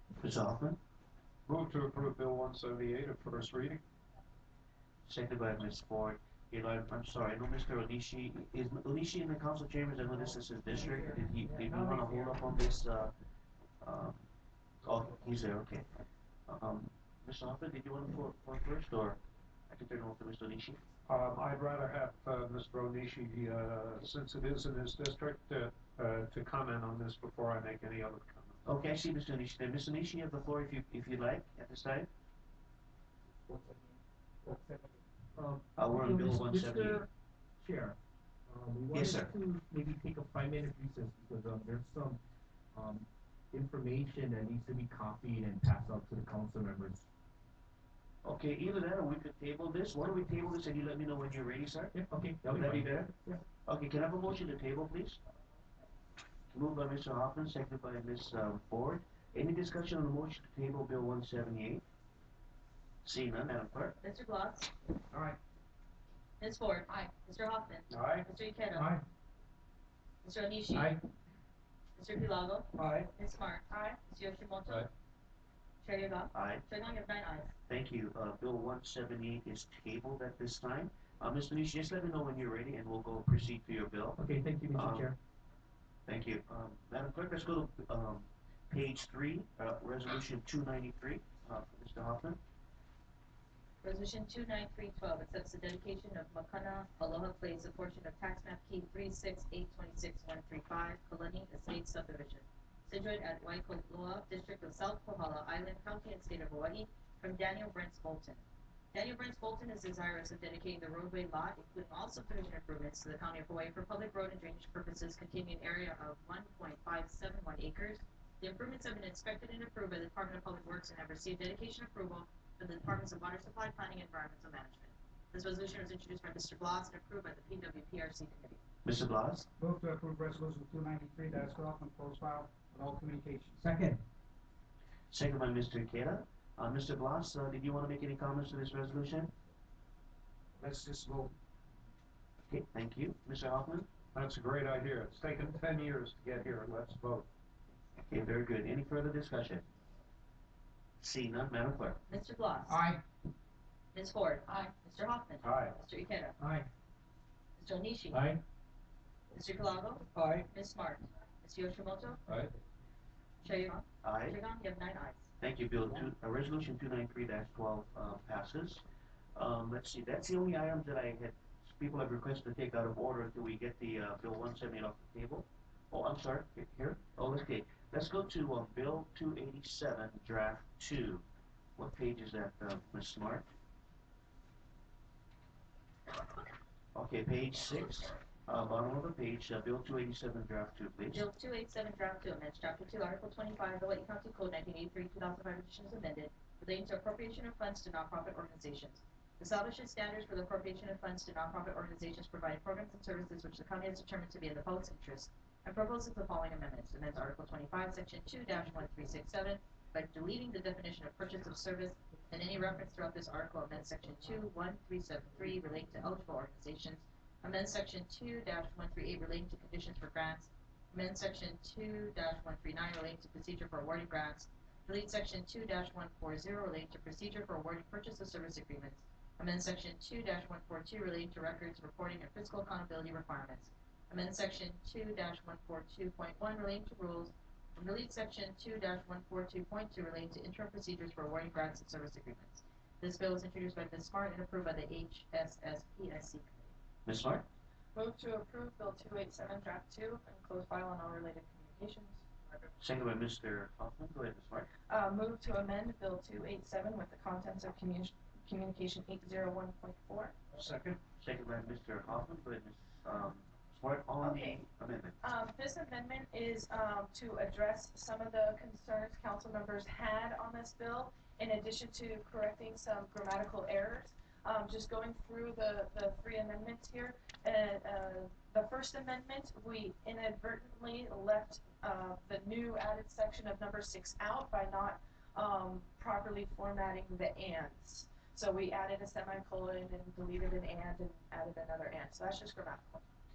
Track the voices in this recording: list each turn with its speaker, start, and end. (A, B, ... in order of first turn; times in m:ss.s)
0:00.2-0:00.8 A
0:01.5-0:03.8 B
0:05.0-0:13.1 A
0:13.8-0:14.3 A
0:14.8-0:15.9 A
0:16.5-0:20.8 A
0:21.0-0:28.6 B
0:28.6-0:32.1 A
0:35.3-0:37.1 C
0:35.8-0:37.0 A
0:37.6-0:42.2 C
0:38.9-0:39.3 A
0:42.7-0:47.0 C
0:48.2-0:51.9 A
0:51.9-0:53.4 C
0:52.4-0:53.1 A
0:53.6-0:55.2 A
0:56.5-1:01.8 A
1:03.0-1:04.0 A
1:04.0-1:04.7 D
1:06.4-1:08.9 D
1:07.9-1:08.2 B
1:08.8-1:09.0 C
1:10.2-1:11.0 D
1:12.0-1:14.9 D
1:13.7-1:14.0 E
1:15.8-1:17.5 D
1:16.3-1:16.6 A
1:17.7-1:24.2 A
1:24.2-1:25.2 C
1:24.7-1:25.1 A
1:26.0-1:32.4 A
1:33.8-1:48.4 D
1:48.9-2:08.6 D
2:08.8-2:09.4 A
2:09.6-2:13.7 F
2:13.6-2:14.0 C
2:15.1-2:19.3 A
2:20.6-2:21.3 F
2:22.5-2:23.9 A
2:24.1-2:27.3 B
2:28.0-2:29.6 A
2:31.0-2:32.0 A
2:32.1-2:32.8 D
2:32.7-2:33.0 F
2:33.9-2:36.4 D
2:35.4-2:35.8 B
2:36.4-2:36.6 F
2:37.6-2:38.3 D
2:38.1-2:38.4 B
2:39.3-2:42.2 D
2:42.3-2:42.5 B
2:43.4-2:45.3 D
2:44.0-2:44.4 A
2:45.4-2:48.8 A
2:49.3-3:01.2 A
3:01.8-3:03.4 A
3:06.9-3:11.2 A
3:11.1-4:06.7 D
4:07.0-4:07.4 A
4:07.9-4:12.3 E
4:12.8-4:14.7 A
4:14.9-4:20.4 E
4:20.6-4:20.8 B
4:20.8-4:25.2 A
4:24.2-4:24.6 E
4:25.2-4:53.0 E